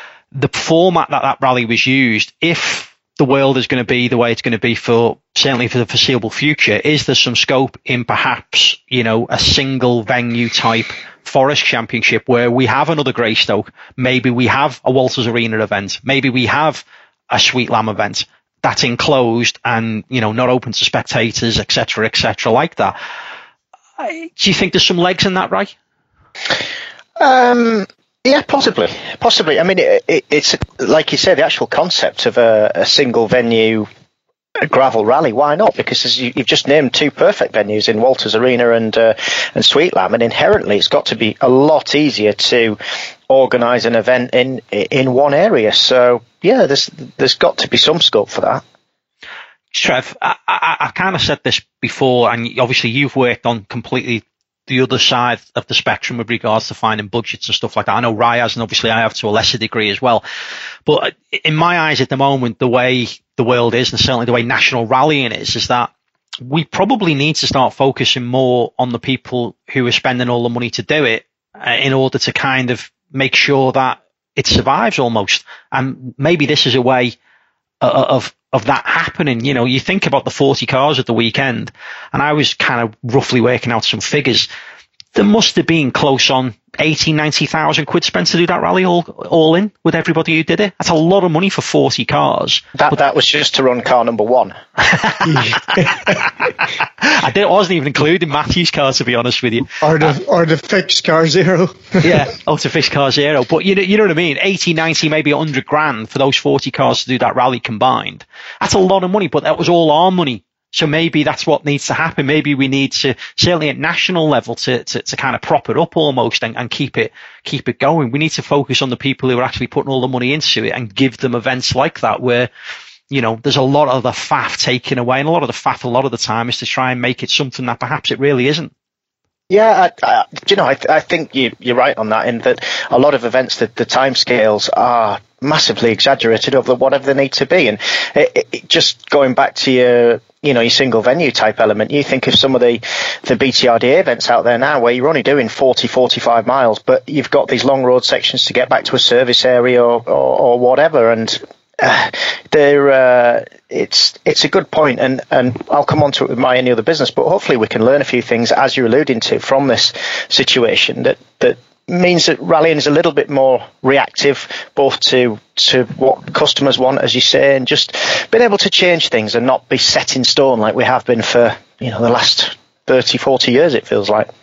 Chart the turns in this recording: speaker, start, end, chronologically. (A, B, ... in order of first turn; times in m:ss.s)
0:00.3-0:22.9 A
0:24.0-0:25.7 A
0:27.2-0:33.9 B
0:34.6-0:48.6 B
0:49.7-1:00.2 A
1:00.8-1:05.9 A
1:06.4-1:17.2 A
1:17.8-1:24.5 A
1:25.1-1:32.6 A
1:32.8-1:34.5 B
1:35.0-1:35.4 A
1:35.2-1:36.2 C
1:36.2-1:39.8 A
1:39.8-1:42.3 C
1:42.0-2:02.5 A
2:03.1-2:08.7 A
2:09.5-2:54.3 B